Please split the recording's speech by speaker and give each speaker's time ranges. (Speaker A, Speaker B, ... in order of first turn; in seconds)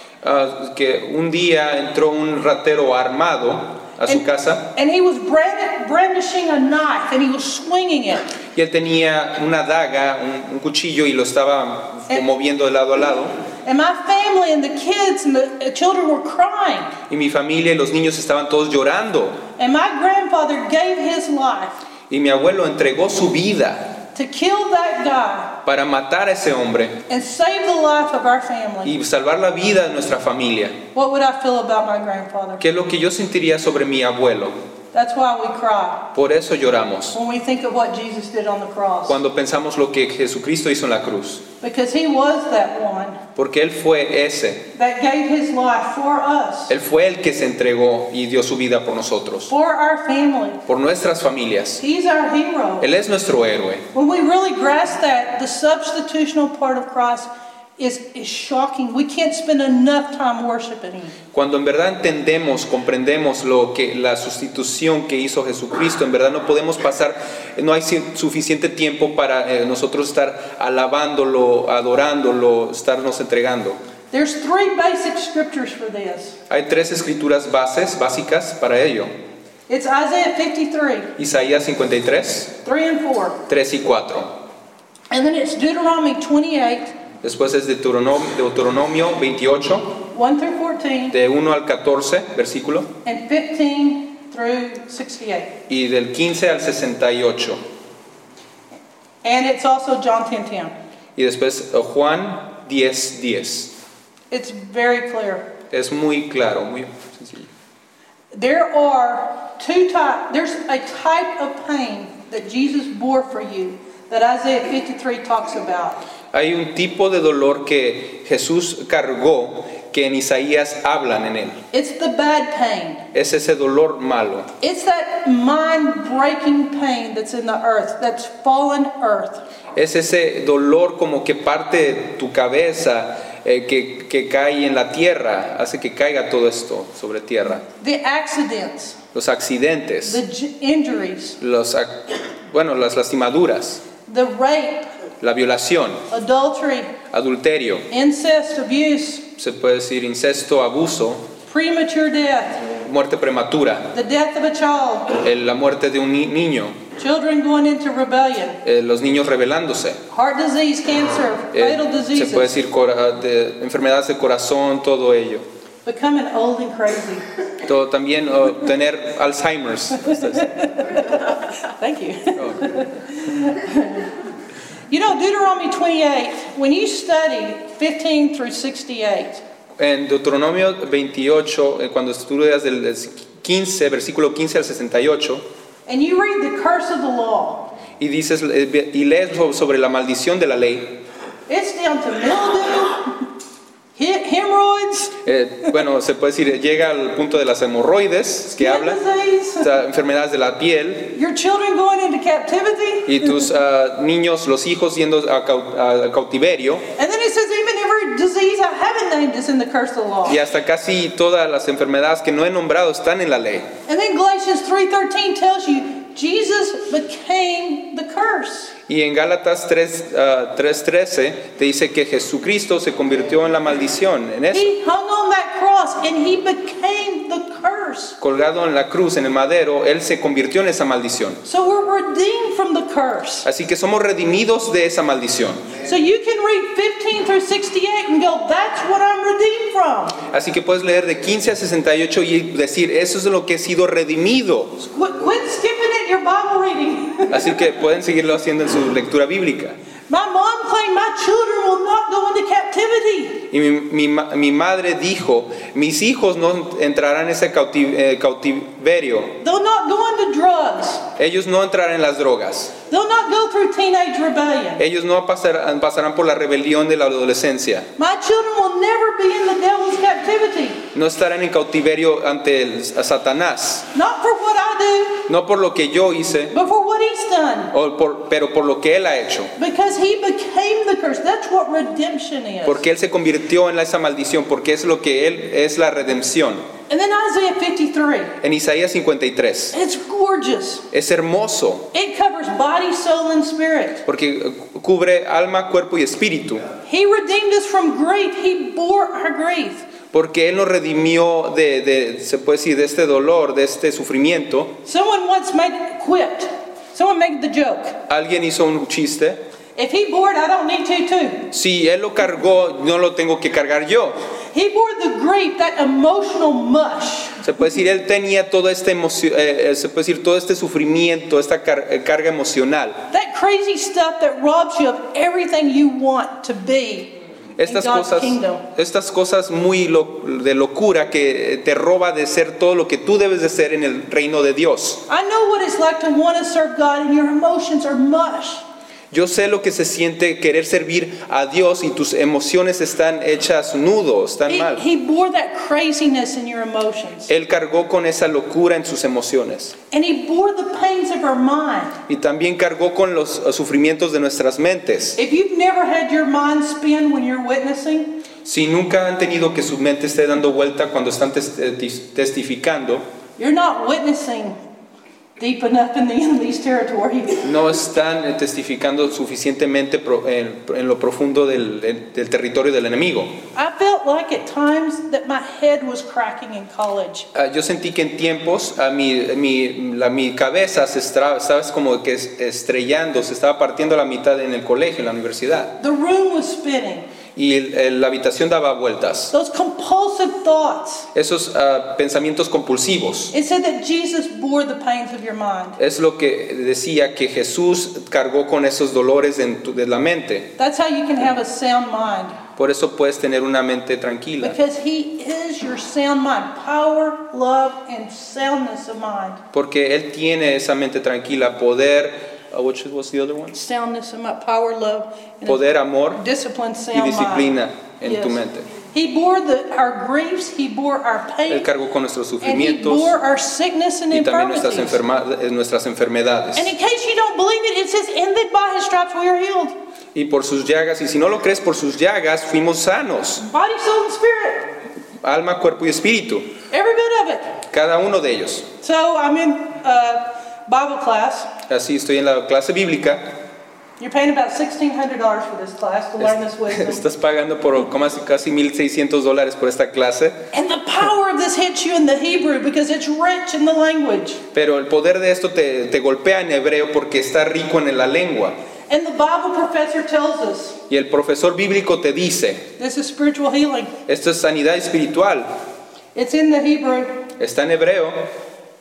Speaker A: 0.2-4.7, 8.5-13.3, 17.1-19.4, 22.1-24.0, 25.6-27.0, 28.8-30.8, 32.6-34.5, 36.1-37.2, 39.0-41.4, 43.4-44.7, 46.7-49.5, 50.7-51.8, 52.8-53.9, 61.3-73.8, 76.5-79.1, 81.2-82.5, 83.5-84.3, 87.2-90.0, 91.1-92.9, 95.7-97.6, 101.2-103.7, 105.7-107.5, 116.3-121.6, 123.1-124.5, 129.7-137.7, 139.1-140.2, 141.4-143.8, 145.2-146.1, 147.1-147.9, 149.3-151.3, 152.8-153.9, 155.1-156.8, 158.6-160.0, 161.5-165.4, 167.6-170.7, 172.4-172.8, 179.8-185.4, 188.0-191.0, 195.2-199.0, 199.6-201.1, 203.1-206.9, 210.2-213.7, 218.9-224.7, 228.2-231.4, 233.4-235.7, 240.2-244.8, 247.3-249.8, 253.5-259.4, 261.2-262.7, 264.8-267.9, 270.9-273.9, 275.3-276.5, 277.7-279.5, 282.6-286.7, 288.4-289.8, 290.9-291.9, 294.1-296.7, 300.1-304.8, 308.1-309.4, 311.5-314.2, 317.4-323.1, 327.6-335.0, 339.1-344.8, 347.3-349.8, 352.1-355.2, 358.4-363.0, 367.4-373.4, 377.3-385.8, 387.4-389.3, 391.1-393.3, 395.8-400.5, 402.6-404.6, 409.5-413.6, 415.4-416.2, 416.9-418.7, 421.5-423.1, 424.1-426.7, 430.1-433.4, 435.2-436.5, 437.7-438.7, 441.7-443.4, 446.2-450.4, 454.5-458.6, 460.9-462.7, 464.1-465.5, 467.4-468.3
Speaker B: 4.1-8.3, 13.6-17.0, 19.6-21.8, 24.1-25.6, 27.1-28.9, 30.9-32.6, 34.9-36.1, 37.1-39.2, 41.6-43.2, 44.7-46.7, 49.5-50.6, 51.8-52.9, 53.9-61.1, 74.1-76.4, 79.7-81.1, 82.6-83.4, 85.1-86.9, 90.1-91.2, 93.0-95.6, 99.2-100.7, 104.3-105.5, 108.3-116.0, 121.7-123.0, 124.6-129.4, 137.8-139.0, 140.0-141.4, 144.1-144.9, 146.1-146.9, 147.9-149.3, 151.5-152.7, 153.9-155.2, 157.0-158.6, 160.1-162.5, 165.8-167.2, 170.3-174.1, 174.9-179.4, 185.9-187.7, 191.5-193.2, 193.9-195.2, 198.5-199.7, 201.1-203.4, 207.0-210.4, 213.9-218.7, 224.5-228.2, 231.4-233.5, 235.8-240.2, 244.8-247.6, 250.1-253.5, 259.4-261.1, 262.9-264.8, 268.0-270.9, 273.9-275.3, 276.5-277.7, 279.6-282.8, 286.9-288.4, 289.7-290.9, 291.9-294.0, 296.8-299.9, 304.8-308.0, 309.8-311.5, 314.5-317.4, 323.1-328.6, 335.1-338.6, 344.5-347.3, 349.9-352.0, 355.2-358.2, 363.4-364.6, 365.4-367.5, 373.5-377.3, 385.8-387.1, 389.3-391.1, 393.3-395.8, 400.6-402.4, 404.4-409.4, 413.5-417.5, 418.0-421.7, 422.4-425.0, 426.5-429.7, 433.4-434.7, 436.7-437.6, 438.8-441.5, 444.0-447.0, 450.5-454.4, 458.9-460.8, 462.8-463.9, 466.1-467.3